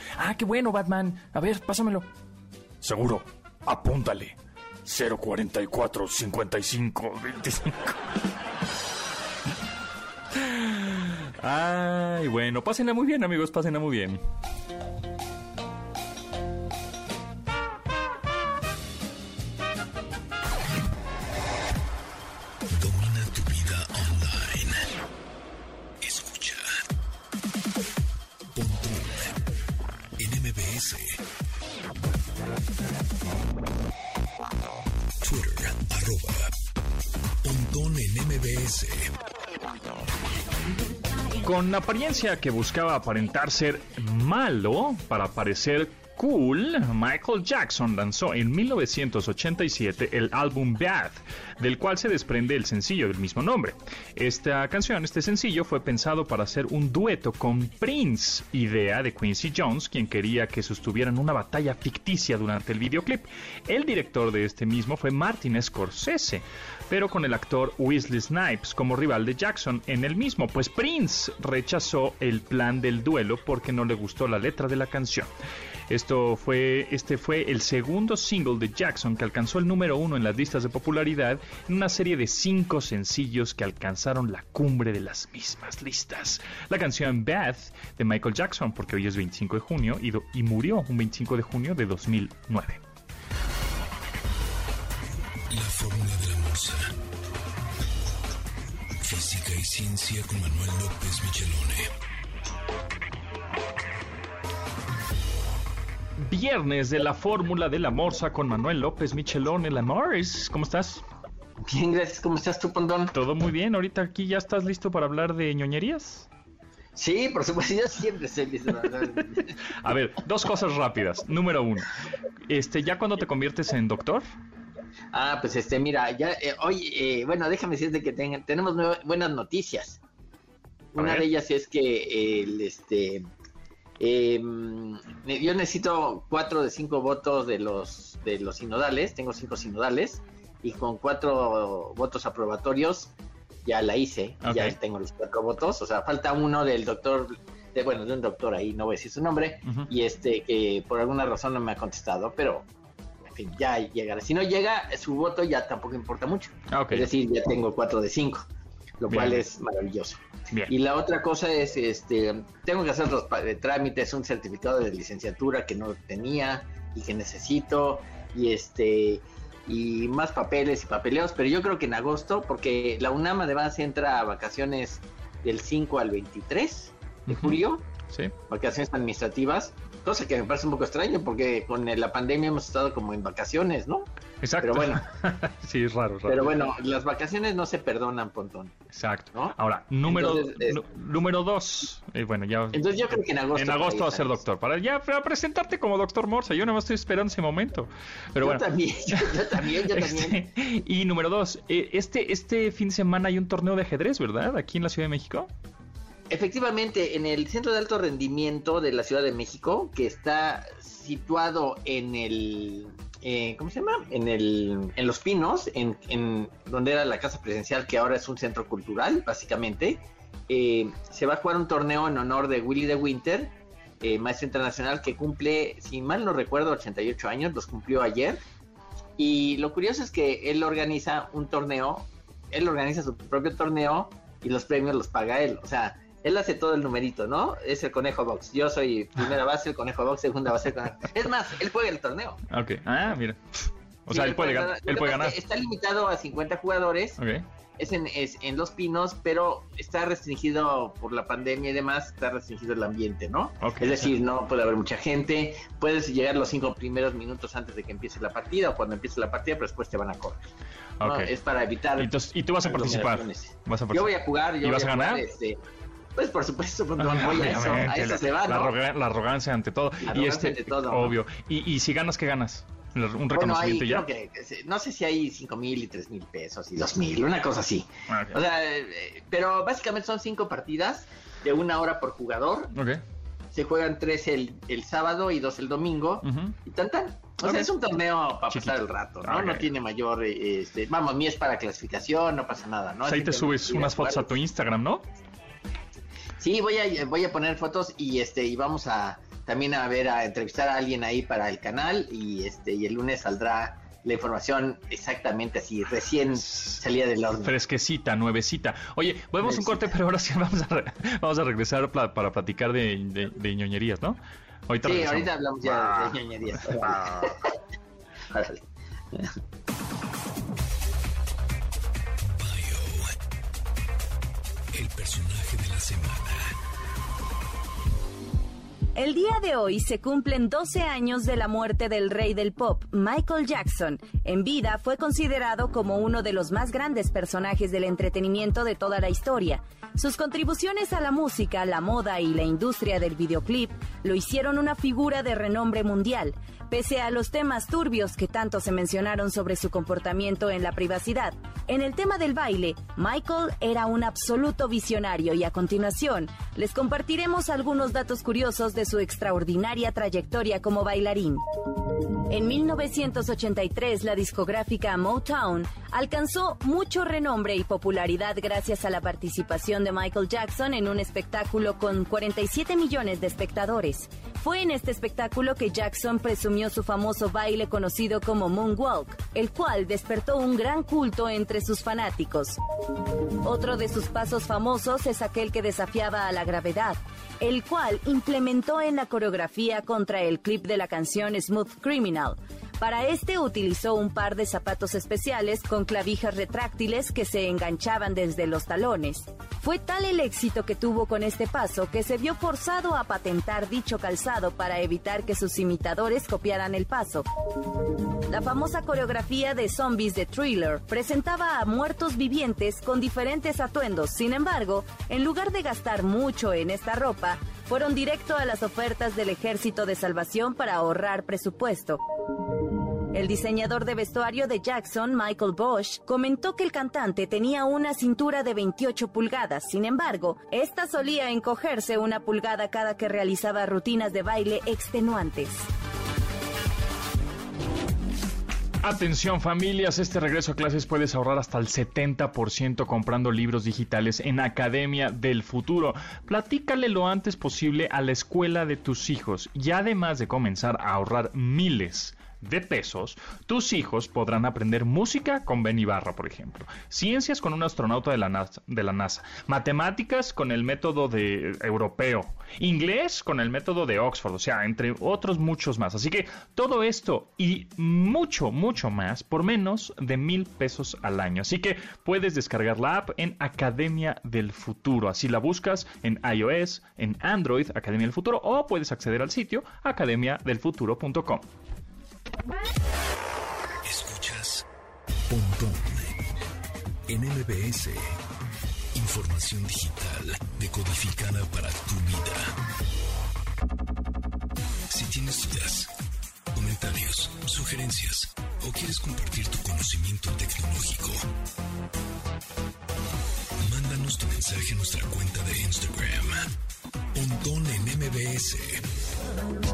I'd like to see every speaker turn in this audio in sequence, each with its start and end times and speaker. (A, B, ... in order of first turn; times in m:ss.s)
0:00.2-0:02.1 A
0:02.8-0:08.0 A
0:10.3-0:14.2 A
0:22.7-0:24.8 B
0:26.0-0:26.8 B
0:28.5-0:29.3 B
0:30.2-0:31.2 B
0:35.2-0:36.5 B
0:37.4-0:39.1 B
0:41.4-1:15.3 A
1:15.9-1:32.8 A
1:35.5-1:36.9 B
1:39.0-1:41.9 B
1:46.2-1:51.0 A
1:51.6-1:53.1 C
1:53.1-1:56.3 A
1:56.9-1:59.5 C
1:59.6-2:01.9 A
2:02.4-2:04.2 A
2:05.1-2:10.0 C
2:10.9-2:13.2 C
2:11.0-2:11.2 A
2:14.0-2:23.1 C
2:23.6-2:32.7 C
2:24.4-2:24.8 A
2:33.2-2:38.5 C
2:36.7-2:37.1 A
2:39.0-2:57.8 C
2:39.1-2:39.4 A
2:57.3-2:58.3 A
2:58.5-3:04.1 C
3:04.4-3:06.6 A
3:04.6-3:05.0 C
3:06.3-3:08.8 C
3:08.9-3:12.9 A
3:09.3-3:10.8 C
3:12.7-3:14.4 C
3:13.5-3:25.5 A
3:18.4-3:20.4 C
3:26.3-3:48.4 C
3:49.2-4:02.4 C
4:02.5-4:05.4 A
4:04.1-4:07.2 C
4:07.2-4:07.4 A
4:07.8-4:20.4 C
4:13.6-4:14.1 A
4:21.0-4:21.3 A
4:21.0-4:22.1 C
4:22.0-4:25.2 A
4:22.6-4:25.6 C
4:26.2-4:28.7 C
4:27.0-4:34.1 A
4:30.0-4:31.2 C
4:33.3-4:42.7 C
4:38.1-4:38.4 A
4:42.7-4:43.0 A
4:43.5-4:54.3 C
4:46.2-4:46.6 A
4:47.4-4:47.7 A
4:48.5-4:49.7 A
4:53.0-4:55.0 A
4:56.4-5:07.5 C
5:07.4-5:17.4 A
5:14.8-5:17.5 C
5:18.3-5:19.4 C
5:22.3-5:23.2 B
5:24.7-5:26.5 B
5:29.0-6:01.4 D
6:02.3-6:22.6 D
6:23.4-6:47.2 D
6:48.3-7:02.0 D
7:03.1-7:15.6 D
7:18.8-8:01.4 A
8:03.8-8:04.6 B
8:05.3-8:06.2 B
8:07.1-8:08.2 B
8:08.9-8:12.5 B
8:14.9-8:15.9 B
8:16.5-8:21.2 B
8:23.6-8:26.5 B
8:27.1-8:28.8 B